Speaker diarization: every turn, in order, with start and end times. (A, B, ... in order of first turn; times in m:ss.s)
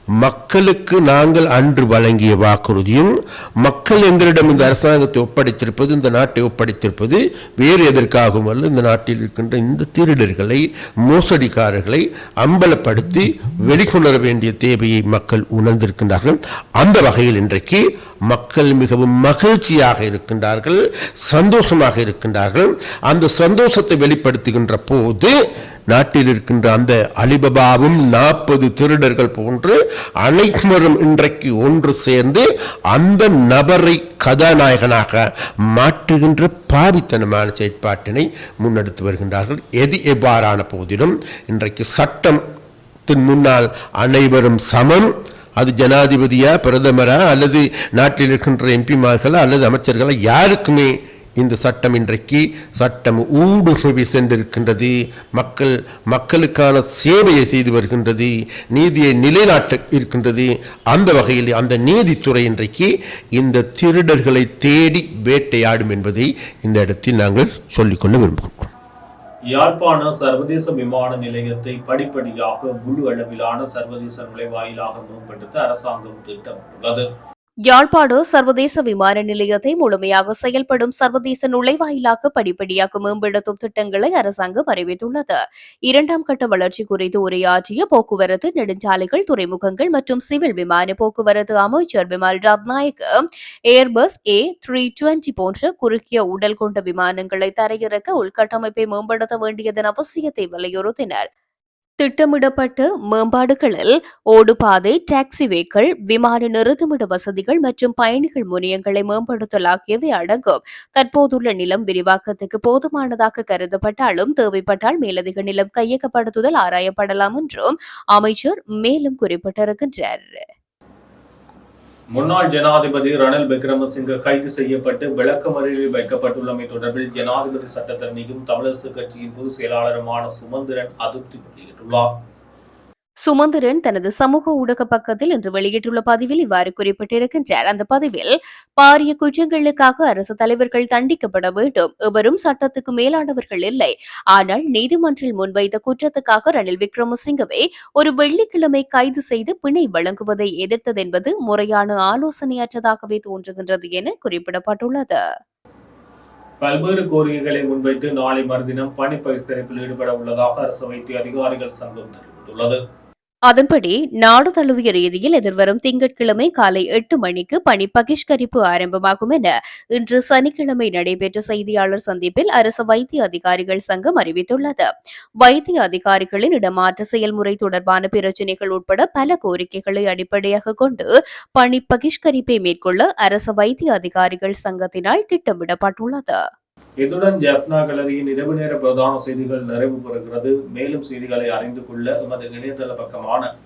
0:00.2-0:25.3 A
0:25.9-0:42.4 A
0:43.1-1:08.7 A
1:09.5-1:17.1 B
1:17.7-1:33.1 C
1:33.7-1:41.3 C
1:42.0-2:00.4 C
2:02.1-2:12.1 B
2:13.2-2:35.2 C
2:36.6-2:42.8 B
2:43.5-2:54.9 C
2:55.4-3:06.4 C
3:07.0-3:13.5 B